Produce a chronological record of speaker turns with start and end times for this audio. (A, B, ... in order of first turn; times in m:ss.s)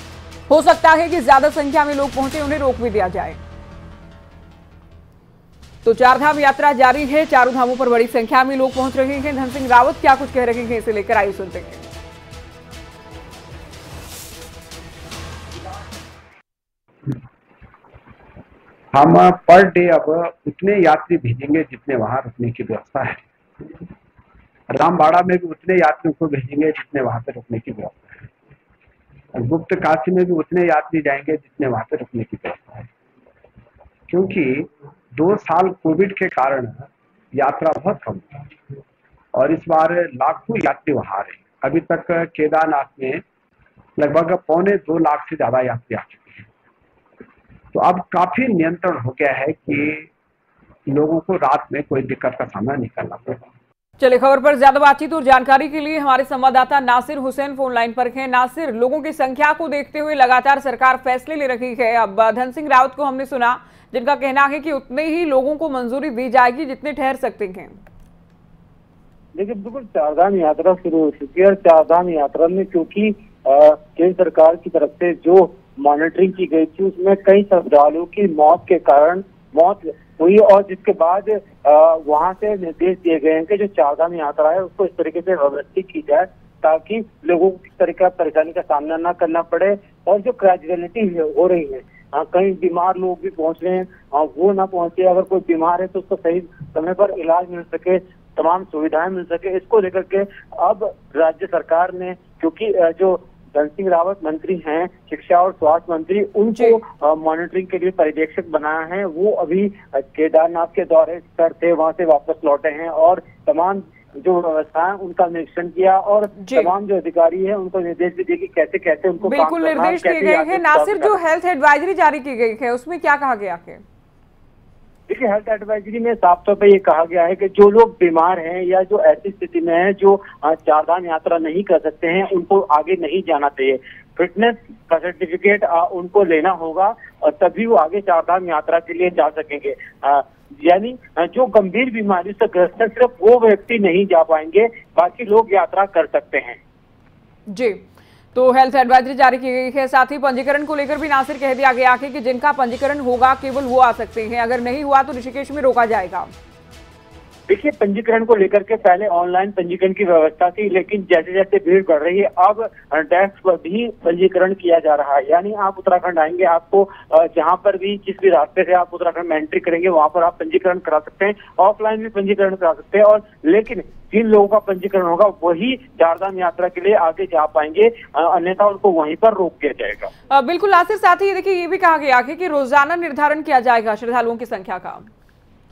0:00.5-0:03.4 A
0:05.8-0:11.9 A
0:18.9-0:23.2 B
0:24.7-0:28.3 B
0:29.4-0:32.9 B
0:34.1-0:38.4 B
0:39.4-0:43.2 B
0:44.0-0:46.5 B
0:47.7-0:50.1 B
0:50.9-0:53.4 B
0:54.0-1:07.8 A
1:09.4-2:01.2 C
1:56.4-1:56.7 A
1:59.2-2:03.8 A
2:05.1-2:26.6 C
2:27.5-2:36.3 A
2:37.5-3:00.1 C
3:00.3-3:05.1 A